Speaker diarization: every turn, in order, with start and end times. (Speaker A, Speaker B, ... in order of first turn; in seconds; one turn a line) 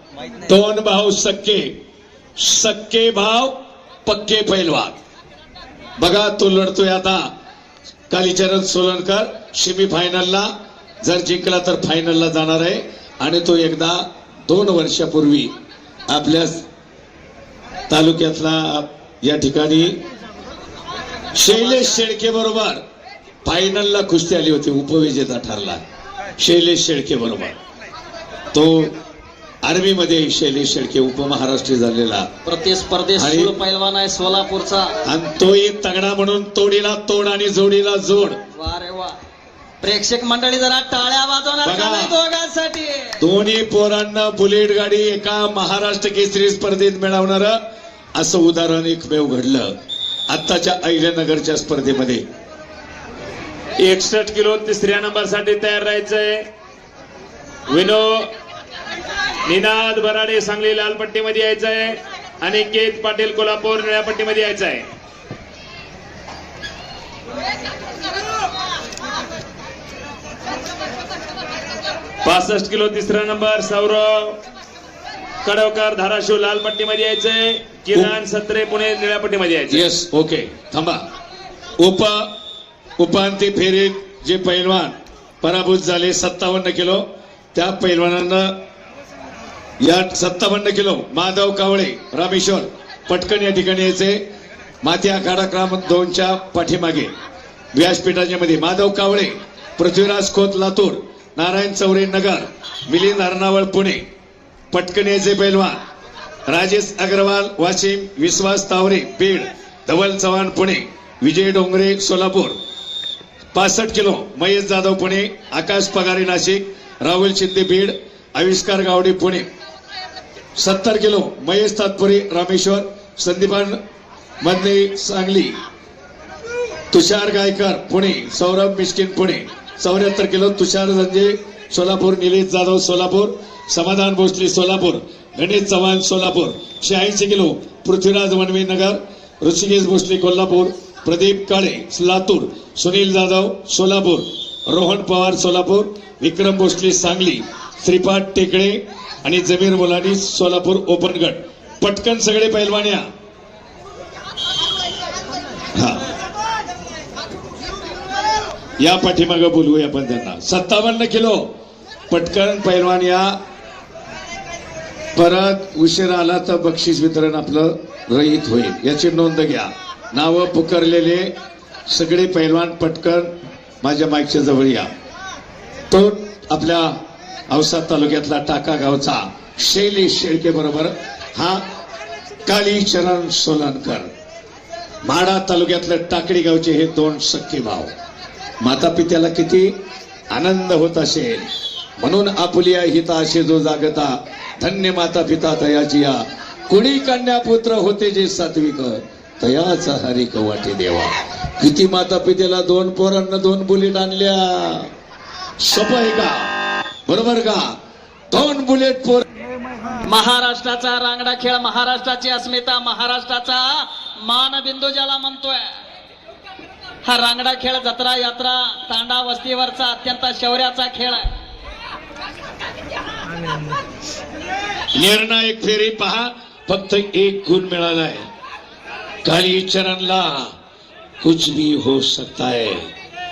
Speaker A: 0.5-1.7
Speaker A: 2.4-3.5
Speaker A: 4.0-4.9
Speaker A: 6.0-7.2
Speaker A: 8.1-10.5
Speaker A: 11.0-15.5
Speaker A: 16.1-16.6
Speaker A: 17.9-19.9
Speaker A: 21.3-22.8
Speaker A: 23.4-25.8
Speaker A: 26.4-27.6
Speaker A: 28.5-28.9
Speaker A: 29.6-32.3
Speaker B: 32.4-35.0
Speaker A: 33.2-33.5
Speaker A: 35.0-38.4
Speaker B: 38.5-39.1
Speaker B: 39.8-43.1
Speaker A: 41.6-42.1
Speaker A: 43.2-47.6
Speaker A: 48.1-49.7
Speaker A: 50.3-52.2
Speaker C: 53.8-56.5
Speaker C: 57.7-58.3
Speaker C: 59.5-64.9
Speaker C: 72.2-74.4
Speaker C: 75.4-79.9
Speaker A: 79.7-81.0
Speaker A: 81.8-82.3
Speaker A: 83.0-87.0
Speaker A: 87.5-88.5
Speaker A: 89.8-94.2
Speaker A: 94.8-97.1
Speaker A: 97.7-104.0
Speaker A: 104.7-105.8
Speaker A: 106.5-112.6
Speaker A: 113.5-119.5
Speaker A: 120.5-123.8
Speaker A: 124.4-125.5
Speaker A: 126.9-153.0
Speaker A: 155.8-156.0
Speaker A: 158.8-161.4
Speaker A: 162.1-163.3
Speaker A: 165.2-171.3
Speaker A: 171.9-173.3
Speaker A: 173.8-174.9
Speaker A: 175.9-177.0
Speaker A: 177.5-181.6
Speaker A: 182.4-184.1
Speaker A: 185.0-187.9
Speaker A: 188.6-189.7
Speaker A: 190.3-191.5
Speaker A: 192.0-204.9
Speaker A: 205.6-206.5
Speaker A: 207.1-207.7
Speaker A: 208.3-209.2
Speaker B: 210.0-215.6
Speaker B: 217.0-221.3
Speaker A: 224.9-228.2
Speaker A: 229.2-230.5
Speaker A: 231.2-232.9